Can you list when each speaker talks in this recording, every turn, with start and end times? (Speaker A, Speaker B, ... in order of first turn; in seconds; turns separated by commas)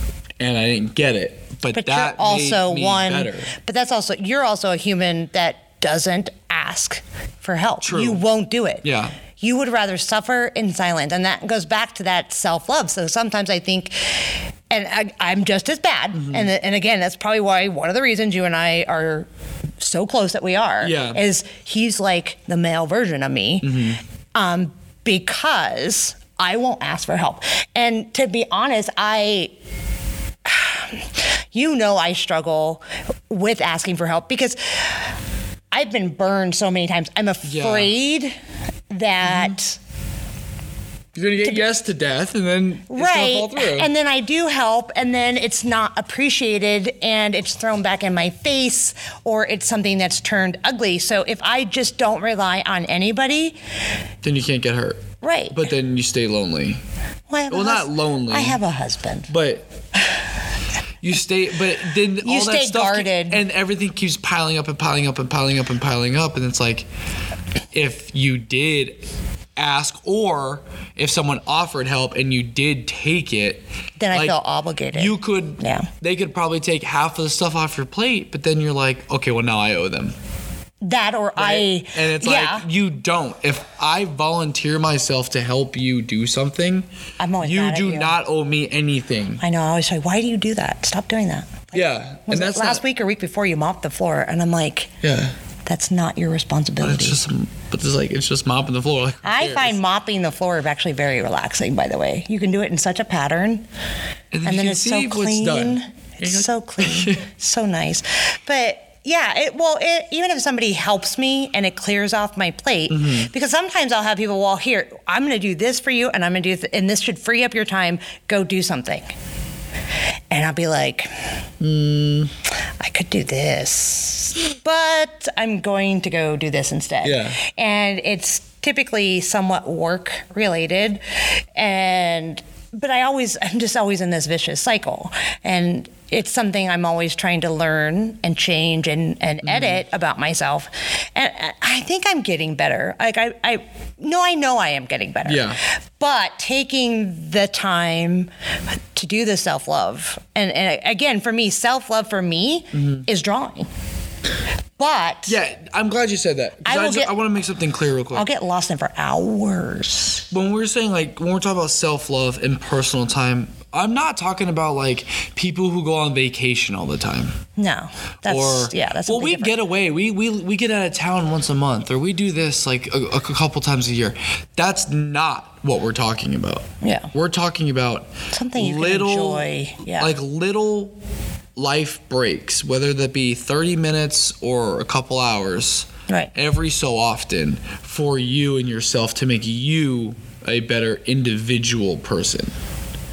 Speaker A: 0.4-3.5, Speaker B: 1.7-8.8, Speaker A: 7.8-8.2, Speaker A: 8.8-9.2, Speaker B: 9.4-19.3, Speaker A: 16.1-16.5, Speaker B: 19.8-23.8, Speaker A: 20.8-21.2, Speaker A: 23.6-24.0, Speaker B: 24.4-29.5, Speaker B: 30.4-35.0, Speaker B: 35.7-38.4, Speaker A: 37.4-37.9, Speaker B: 38.9-39.8, Speaker A: 39.2-39.5, Speaker A: 41.1-43.9, Speaker B: 42.9-53.6, Speaker A: 54.2-56.8, Speaker B: 55.2-55.7, Speaker B: 57.3-59.3, Speaker A: 57.5-58.6, Speaker A: 59.3-59.7, Speaker A: 61.0-66.9, Speaker B: 62.2-63.4, Speaker A: 67.7-69.0, Speaker A: 69.6-74.4, Speaker B: 74.0-75.9, Speaker A: 74.9-80.2, Speaker B: 80.8-82.7, Speaker A: 81.4-86.9, Speaker B: 87.2-88.1, Speaker A: 87.4-89.4, Speaker B: 89.4-94.9, Speaker A: 91.7-92.8, Speaker A: 95.0-95.3, Speaker B: 95.7-97.2, Speaker A: 96.8-99.8, Speaker B: 99.2-103.7, Speaker A: 104.3-107.2, Speaker B: 104.5-119.1, Speaker A: 112.9-113.3, Speaker B: 120.3-121.3, Speaker A: 121.6-122.3, Speaker B: 122.8-148.3, Speaker A: 127.0-127.4, Speaker A: 139.4-139.8, Speaker A: 145.2-145.6, Speaker B: 148.9-153.7, Speaker A: 152.7-153.1, Speaker B: 154.8-155.4, Speaker A: 155.3-158.3, Speaker B: 156.6-157.1, Speaker B: 158.1-160.2, Speaker A: 160.3-167.4, Speaker B: 167.6-169.6, Speaker A: 168.3-180.9, Speaker B: 176.8-177.1, Speaker B: 178.3-180.1, Speaker A: 181.6-192.5, Speaker B: 186.1-186.3